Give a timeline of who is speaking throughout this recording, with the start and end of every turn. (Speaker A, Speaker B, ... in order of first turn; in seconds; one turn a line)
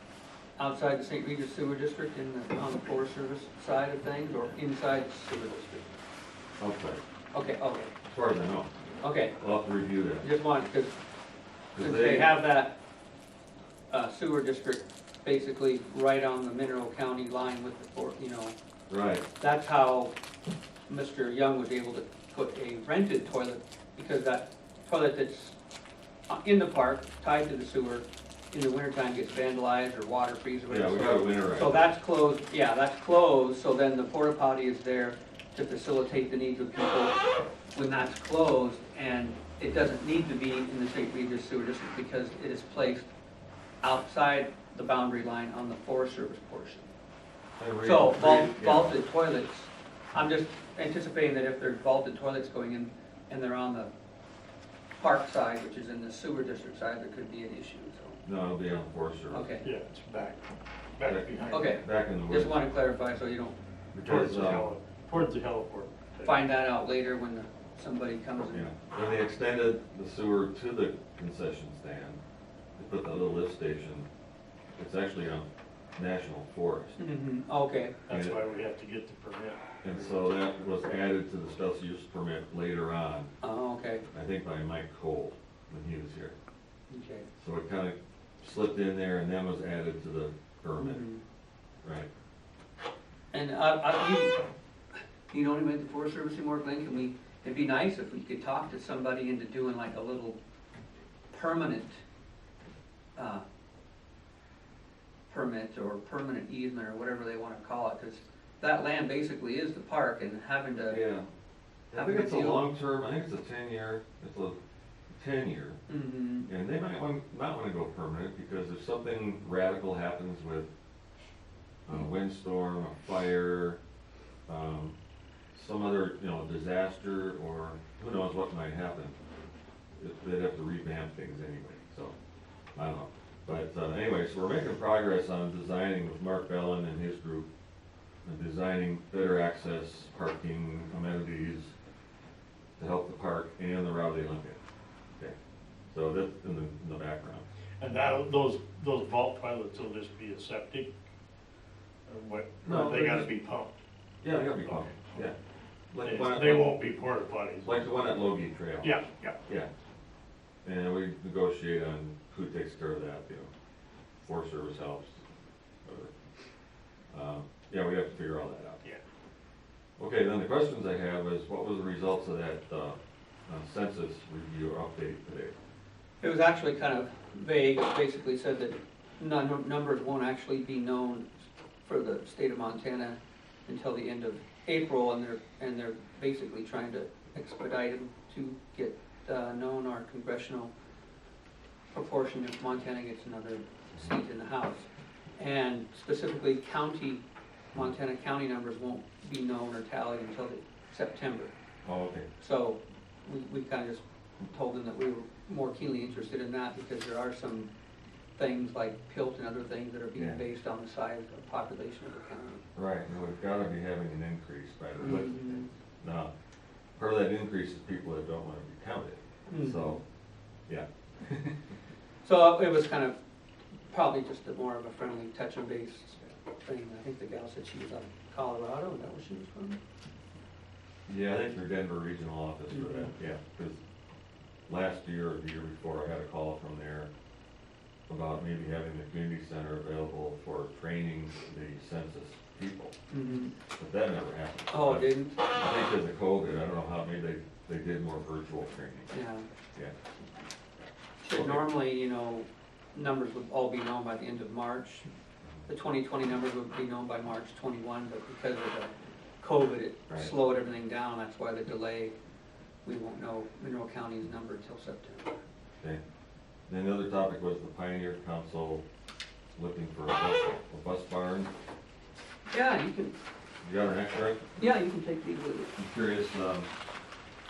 Speaker A: 0.6-5.9
Speaker B: 6.6-7.0
Speaker A: 7.3-7.9
Speaker B: 8.0-8.7
Speaker A: 9.0-9.3
Speaker B: 9.3-10.3
Speaker A: 10.2-10.9
Speaker B: 11.7-12.4
Speaker A: 11.8-12.8
Speaker A: 13.9-18.6
Speaker B: 18.9-19.3
Speaker A: 19.4-20.1
Speaker A: 20.9-25.6
Speaker A: 26.3-37.2
Speaker B: 30.7-31.8
Speaker A: 37.7-43.1
Speaker A: 43.8-46.9
Speaker B: 47.6-48.9
Speaker A: 47.8-53.9
Speaker A: 55.0-58.2
Speaker B: 58.2-59.5
Speaker A: 59.3-59.6
Speaker C: 59.6-60.4
Speaker C: 61.0-61.8
Speaker B: 61.0-62.6
Speaker A: 61.5-63.5
Speaker B: 63.9-64.7
Speaker C: 64.0-66.4
Speaker A: 66.2-68.7
Speaker B: 68.4-72.2
Speaker B: 72.8-74.1
Speaker B: 74.8-77.0
Speaker A: 77.0-78.0
Speaker C: 78.1-80.1
Speaker B: 78.1-78.4
Speaker B: 79.8-83.3
Speaker A: 83.4-84.0
Speaker B: 84.1-86.3
Speaker A: 86.9-87.3
Speaker B: 87.4-91.0
Speaker A: 90.8-91.2
Speaker B: 91.8-92.1
Speaker A: 93.3-94.4
Speaker A: 95.3-100.4
Speaker A: 101.3-102.0
Speaker A: 103.2-103.4
Speaker A: 105.3-111.0
Speaker B: 110.9-111.3
Speaker B: 111.9-114.6
Speaker A: 111.9-112.6
Speaker B: 115.1-115.8
Speaker A: 115.9-116.5
Speaker B: 116.5-120.7
Speaker B: 121.8-123.8
Speaker B: 124.5-124.9
Speaker B: 125.5-129.1
Speaker B: 129.9-132.1
Speaker B: 132.7-137.5
Speaker B: 138.2-141.7
Speaker B: 142.8-144.6
Speaker B: 145.9-147.4
Speaker C: 147.8-150.9
Speaker C: 152.1-153.8
Speaker B: 152.6-153.3
Speaker B: 154.2-155.3
Speaker C: 154.7-155.0
Speaker B: 155.9-156.8
Speaker C: 156.0-157.7
Speaker B: 157.6-159.7
Speaker C: 158.8-159.4
Speaker B: 160.6-163.5
Speaker B: 164.2-165.2
Speaker B: 165.8-166.1
Speaker B: 167.1-168.8
Speaker B: 170.0-175.5
Speaker A: 176.2-190.7
Speaker A: 191.9-197.2
Speaker A: 197.7-201.5
Speaker B: 201.8-202.3
Speaker A: 202.4-207.7
Speaker A: 208.3-212.7
Speaker B: 210.2-210.4
Speaker B: 212.8-216.3
Speaker A: 215.0-215.7
Speaker B: 216.9-220.0
Speaker A: 219.5-219.9
Speaker B: 220.7-221.5
Speaker A: 222.2-223.2
Speaker A: 223.9-229.8
Speaker B: 231.1-233.8
Speaker A: 232.7-233.1
Speaker B: 234.7-237.1
Speaker B: 238.1-242.9
Speaker A: 243.1-243.5
Speaker B: 243.7-249.1
Speaker A: 244.7-245.4
Speaker A: 249.1-249.4
Speaker A: 251.2-255.1
Speaker B: 251.3-251.7
Speaker A: 255.7-262.1
Speaker A: 262.8-265.4
Speaker B: 266.7-268.8
Speaker B: 269.5-271.5
Speaker A: 272.5-273.1
Speaker B: 273.6-274.5
Speaker A: 274.6-275.7
Speaker B: 275.8-276.7